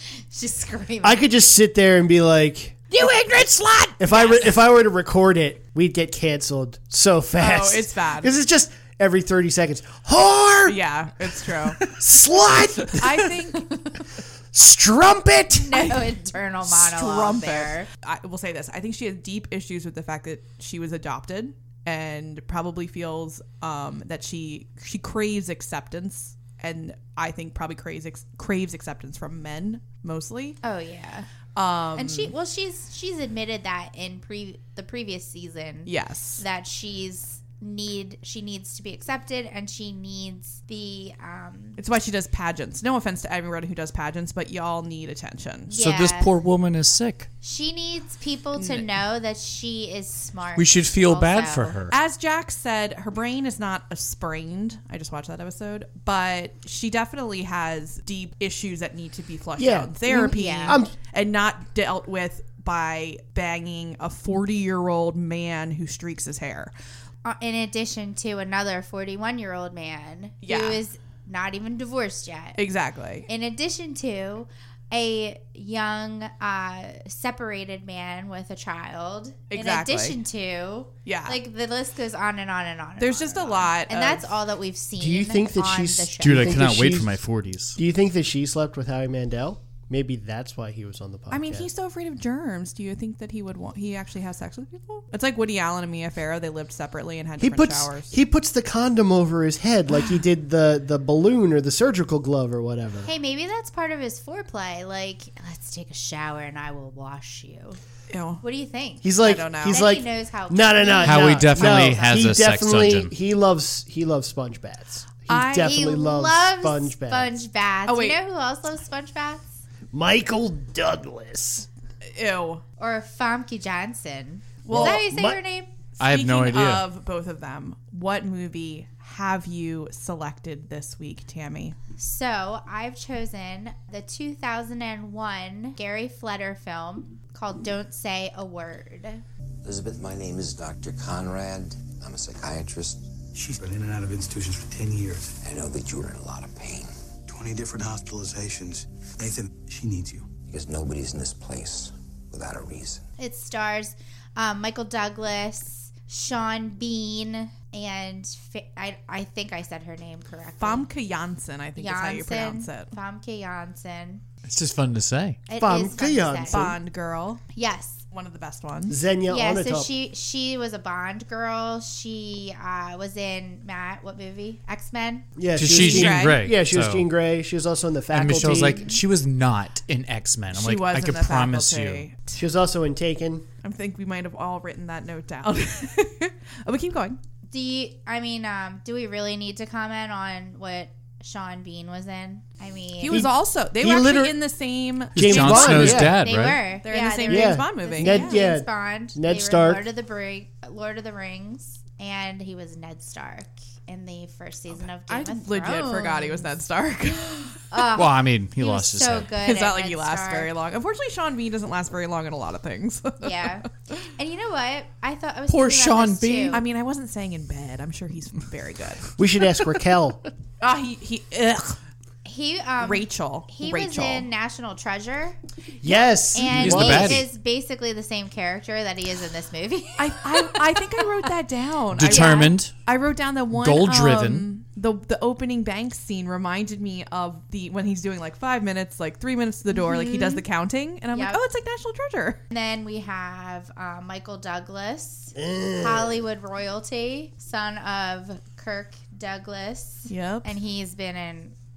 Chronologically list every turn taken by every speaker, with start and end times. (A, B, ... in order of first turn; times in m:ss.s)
0:00.3-0:01.3 A
0:01.0-0:02.8 B
0:02.9-0:04.2 C
0:04.0-0:10.8 B
0:04.1-0:04.4 A
0:07.3-0:08.3 C
0:10.7-0:11.8 C
0:11.7-0:13.6 B
0:13.0-0:13.9 C
0:14.5-0:16.0 B
0:15.5-0:17.9 A
0:16.6-0:30.6 C
0:30.6-0:31.3 A
0:31.6-0:32.3 C
0:32.0-0:41.8 A
0:35.9-0:36.4 C
0:41.8-0:45.7 C
0:45.7-0:46.3 A
0:45.8-0:47.3 D
0:47.4-0:51.8 A
0:48.6-0:48.8 C
0:50.6-0:52.0 D
0:51.9-1:06.7 C
0:59.6-1:00.9 B
1:00.3-1:00.8 A
1:07.2-1:12.6 A
1:10.4-1:10.8 C
1:12.6-1:13.3 C
1:13.3-1:26.6 A
1:19.5-1:20.2 C
1:21.1-1:21.4 C
1:23.0-1:24.4 C
1:25.0-1:27.2 B
1:26.2-1:27.8 D
1:27.8-1:31.7 B
1:31.3-1:38.1 C
1:37.4-1:43.1 B
1:43.0-1:47.8 A
1:48.1-1:48.4 C
1:48.4-1:49.1 A
1:49.0-1:57.4 B
1:49.2-1:49.8 C
1:49.7-1:52.4 A
1:51.0-1:53.1 D
1:55.3-1:55.9 C
1:55.6-1:59.6 A
1:57.9-1:58.2 C
1:59.9-2:01.7 B
2:02.1-2:02.6 C
2:02.8-2:05.7 A
2:04.6-2:05.0 C
2:04.7-2:05.4 B
2:06.0-2:11.8 C
2:06.0-2:06.9 D
2:12.0-2:19.2 A
2:19.6-2:23.2 E
2:23.3-2:25.4 F
2:25.4-2:26.9 E
2:27.3-2:30.3 F
2:30.4-2:33.0 E
2:33.2-2:40.9 A
2:40.6-2:42.9 C
2:41.8-2:44.2 A
2:44.4-2:45.4 D
2:45.5-2:46.7 A
2:45.6-2:46.8 B
2:46.5-2:47.5 C
2:47.5-2:48.0 A
2:48.1-2:49.0 C
2:48.9-2:49.9 B
2:49.3-2:55.3 A
2:55.4-2:58.8 B
2:55.6-2:57.1 D
2:55.6-2:56.4 C
2:58.1-3:02.0 D
2:58.5-2:59.0 A
3:00.5-3:02.4 C
3:02.4-3:03.4 B
3:03.6-3:07.2 C
3:07.5-3:13.2 A
3:13.0-3:16.1 C
3:13.1-3:14.4 B
3:15.2-3:16.2 B
3:15.2-3:16.6 D
3:15.8-3:26.5 A
3:16.8-3:18.4 C
3:17.3-3:19.9 B
3:25.1-3:27.7 C
3:27.7-3:30.5 A
3:28.0-3:29.3 D
3:29.4-3:33.6 C
3:33.2-3:36.6 A
3:35.5-3:36.6 D
3:36.5-3:39.1 C
3:39.2-3:40.2 B
3:40.6-3:41.8 C
3:42.2-3:45.4 A
3:42.8-3:44.3 C
3:45.8-3:47.3 B
3:46.3-3:51.0 A
3:46.5-3:47.3 D
3:50.0-4:02.4 C
3:52.0-3:52.7 D
3:52.1-3:52.5 A
3:53.5-3:54.5 D
3:59.7-4:00.4 A
4:01.1-4:01.4 A
4:02.5-4:11.5 A
4:05.4-4:06.2 B
4:10.1-4:10.5 C